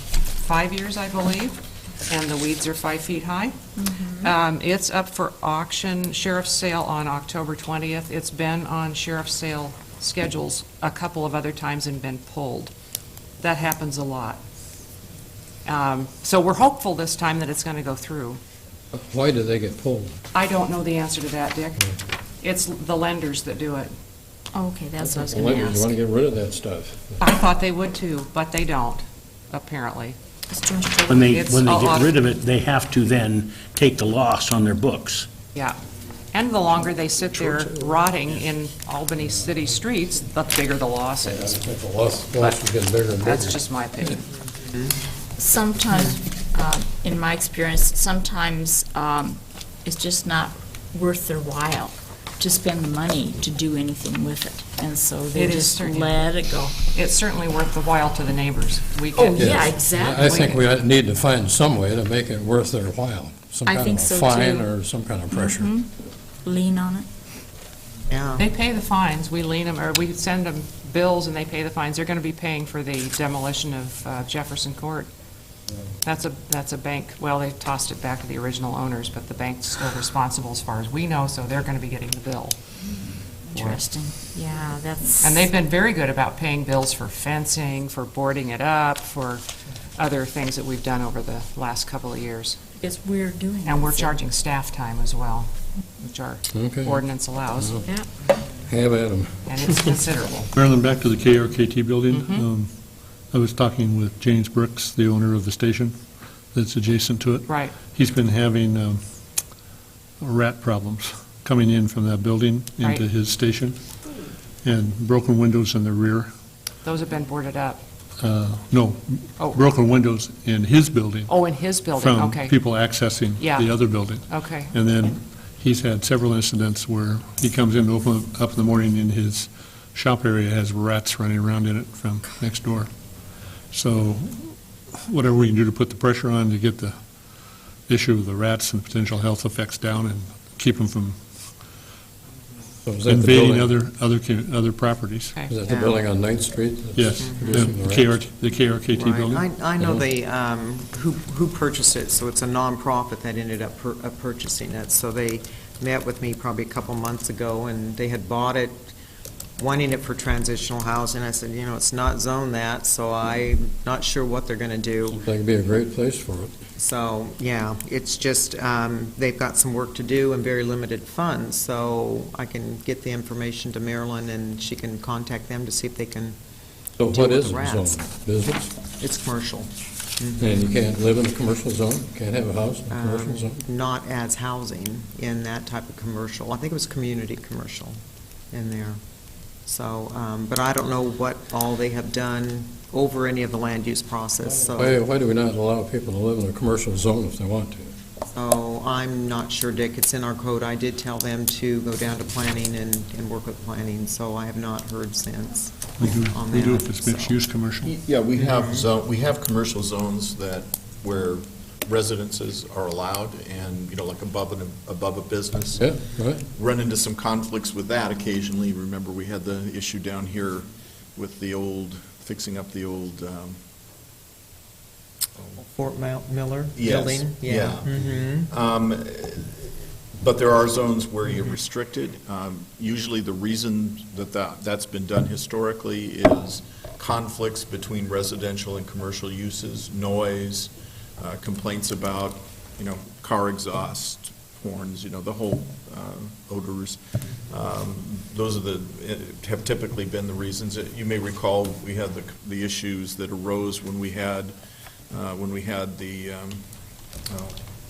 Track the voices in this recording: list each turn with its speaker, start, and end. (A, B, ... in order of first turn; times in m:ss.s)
0:00.4-0:01.5 A
0:02.1-0:03.6 A
0:03.8-0:04.3 B
0:04.2-0:12.7 A
0:13.4-0:14.4 A
0:15.6-0:18.4 A
0:18.9-0:20.1 C
0:20.3-0:21.8 A
0:22.4-0:23.9 A
0:24.5-0:25.9 B
0:25.0-0:27.2 C
0:27.2-0:30.2 A
0:30.5-0:31.2 B
0:31.1-0:35.3 D
0:31.1-0:32.2 A
0:36.3-0:41.6 A
0:41.2-0:44.2 C
0:42.4-0:42.6 A
0:43.1-0:44.2 A
0:45.4-0:56.7 B
0:55.3-0:56.3 A
0:56.9-1:00.5 A
0:59.2-1:00.6 B
0:59.3-1:05.7 C
1:03.6-1:04.7 B
1:05.3-1:05.9 B
1:06.4-1:07.0 B
1:08.1-1:08.4 E
1:08.4-1:15.1 A
1:16.0-1:22.6 A
1:23.5-1:25.5 B
1:23.5-1:23.8 A
1:25.2-1:29.4 A
1:30.0-1:32.6 A
1:32.8-1:34.2 B
1:33.6-1:37.8 A
1:36.5-1:37.0 C
1:37.6-1:37.9 C
1:37.8-1:38.3 B
1:38.6-1:39.8 C
1:39.4-1:40.5 A
1:40.5-1:42.7 F
1:42.1-1:42.4 A
1:43.3-1:45.9 F
1:46.5-1:49.0 F
1:47.4-1:47.8 A
1:50.2-1:53.8 F
1:52.8-1:53.0 A
1:54.6-1:56.3 F
1:56.8-1:57.8 A
1:58.2-2:01.3 F
2:01.3-2:02.6 A
2:01.9-2:12.9 F
2:03.4-2:04.7 A
2:13.7-2:16.9 F
2:17.9-2:21.2 F
2:22.8-2:23.7 C
2:23.1-2:25.3 F
2:25.5-2:28.1 C
2:25.7-2:26.0 E
2:26.9-2:29.4 F
2:27.2-2:27.7 E
2:28.9-2:38.9 E
2:29.8-2:30.0 C
2:39.6-2:45.2 E
2:45.1-2:46.5 C
2:46.8-2:56.4 E
2:57.0-2:58.7 C
2:57.1-2:58.0 E
2:59.0-3:00.5 E
3:00.4-3:03.6 C
3:02.9-3:08.0 E
3:08.5-3:09.0 E
3:09.7-3:15.0 E
3:14.7-3:17.9 C
3:18.3-3:27.4 E
3:26.0-3:27.9 F
3:27.8-3:43.6 G
3:28.4-3:28.8 E
3:35.8-3:36.4 C
3:45.4-3:45.6 G
3:45.8-3:48.5 E
3:46.8-4:14.5 G
4:15.1-4:16.6 G
4:17.3-4:17.6 G